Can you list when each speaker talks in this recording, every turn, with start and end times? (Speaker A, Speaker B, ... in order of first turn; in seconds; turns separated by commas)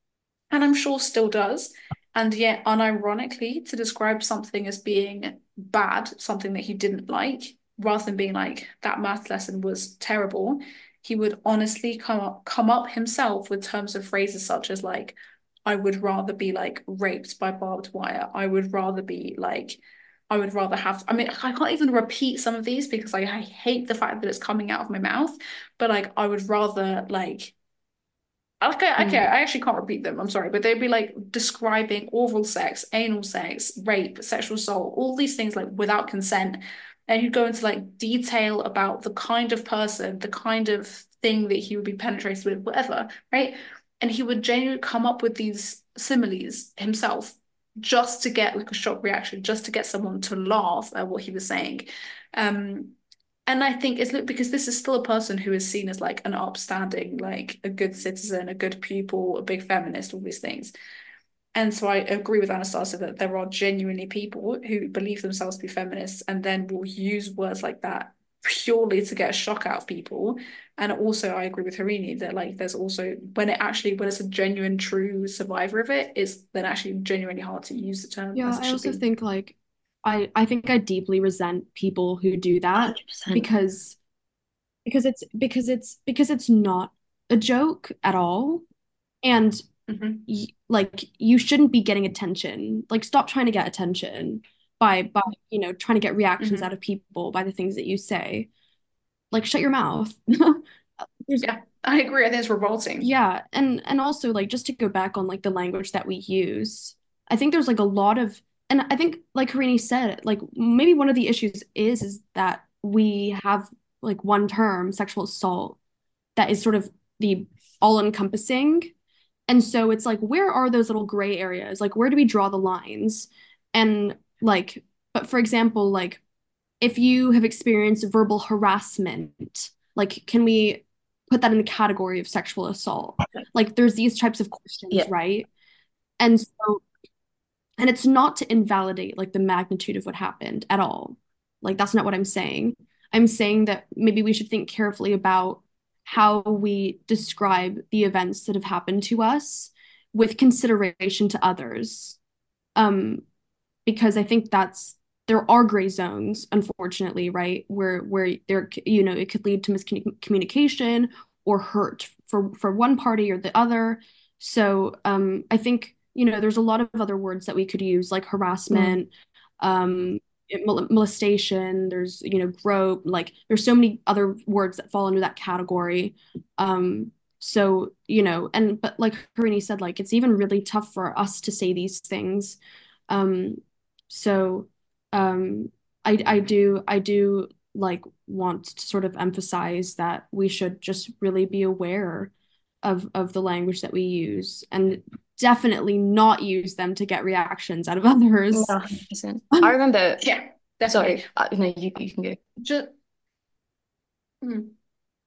Speaker A: 0.5-27.5, Speaker A: 28.6-53.0, Speaker B: 29.0-29.2, Speaker A: 53.5-60.7, Speaker A: 61.5-79.0, Speaker C: 78.3-84.0, Speaker B: 82.8-83.5, Speaker C: 84.8-88.6, Speaker C: 89.2-89.6, Speaker A: 89.9-90.2, Speaker C: 90.3-98.5, Speaker A: 96.4-96.7, Speaker C: 99.3-100.6, Speaker C: 101.2-101.5, Speaker A: 101.4-103.1, Speaker C: 103.0-115.8, Speaker C: 116.3-118.9, Speaker C: 119.5-126.2, Speaker C: 126.8-135.5, Speaker C: 136.2-136.8, Speaker C: 137.8-152.2, Speaker C: 152.8-153.2, Speaker C: 153.8-169.1, Speaker B: 168.7-169.0, Speaker C: 169.6-182.6, Speaker C: 183.1-192.3, Speaker C: 192.8-198.7, Speaker B: 198.5-200.3, Speaker A: 200.2-201.2, Speaker B: 200.9-202.4, Speaker A: 202.6-202.9, Speaker A: 204.4-204.7